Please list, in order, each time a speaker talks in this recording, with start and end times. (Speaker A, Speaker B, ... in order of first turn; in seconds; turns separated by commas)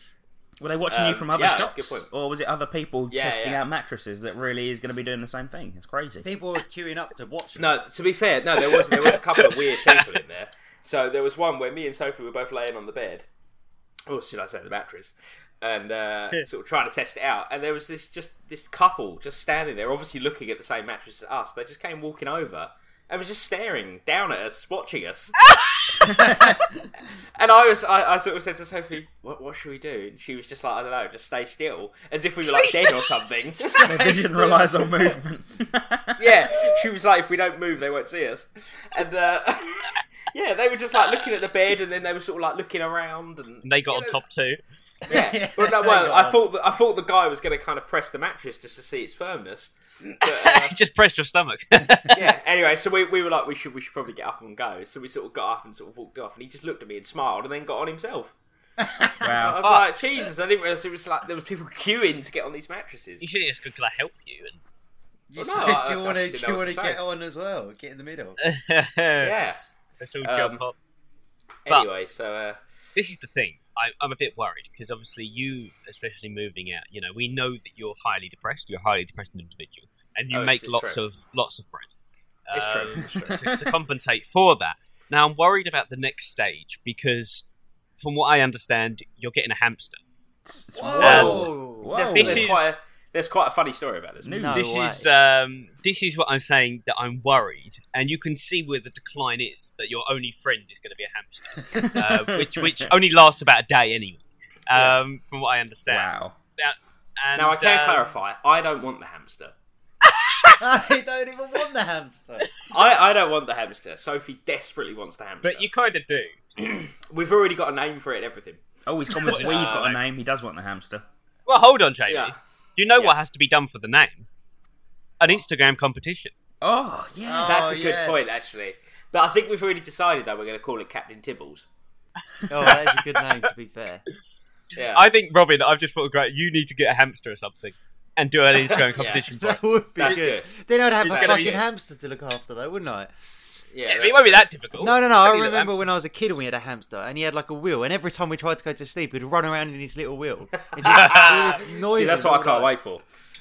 Speaker A: 0.6-6.3, Speaker B: 0.9-2.1, Speaker B: 3.1-3.6, Speaker C: 6.2-7.8, Speaker B: 7.6-13.2, Speaker D: 8.7-10.0, Speaker B: 14.1-25.3, Speaker A: 26.0-26.6, Speaker B: 27.4-34.0, Speaker D: 32.4-33.1, Speaker C: 33.6-35.1, Speaker A: 33.9-36.3, Speaker B: 36.2-44.2, Speaker D: 43.6-44.6, Speaker C: 45.0-46.4, Speaker B: 45.1-50.8, Speaker D: 50.3-52.3, Speaker B: 52.1-58.3, Speaker C: 58.8-59.3, Speaker A: 59.2-59.6, Speaker B: 59.2-63.2, Speaker D: 63.2-64.6, Speaker C: 65.3-68.4, Speaker B: 65.3-67.0, Speaker D: 68.4-69.3, Speaker B: 69.2-69.6, Speaker D: 70.0-70.8, Speaker B: 70.2-70.6, Speaker B: 71.6-72.6, Speaker D: 72.9-81.9, Speaker B: 80.3-81.0, Speaker D: 82.5-87.4, Speaker B: 82.5-83.3, Speaker A: 83.0-83.7, Speaker D: 88.0-90.0, Speaker A: 90.5-92.5, Speaker C: 90.8-92.0, Speaker D: 91.0-91.4, Speaker B: 91.0-94.5, Speaker D: 92.1-92.7, Speaker A: 94.2-94.6, Speaker C: 94.3-95.1, Speaker D: 94.5-108.1, Speaker A: 101.8-102.9, Speaker A: 105.9-106.3, Speaker B: 107.3-109.5, Speaker D: 110.2-110.6, Speaker C: 110.6-112.5, Speaker B: 112.7-115.7, Speaker D: 115.4-116.3, Speaker B: 116.6-120.0, Speaker A: 118.8-121.0, Speaker D: 119.2-119.8, Speaker D: 121.5-124.3, Speaker B: 122.1-122.3, Speaker D: 125.2-126.3, Speaker A: 126.6-127.5, Speaker C: 127.2-128.2, Speaker B: 127.4-131.6, Speaker C: 132.5-134.0, Speaker B: 134.7-135.1, Speaker D: 134.9-140.2, Speaker B: 138.7-139.2, Speaker C: 139.4-143.1, Speaker B: 139.9-141.6, Speaker D: 141.0-141.6, Speaker B: 143.7-144.4, Speaker D: 143.9-145.7, Speaker C: 144.8-152.7, Speaker B: 150.7-153.0, Speaker D: 150.9-151.3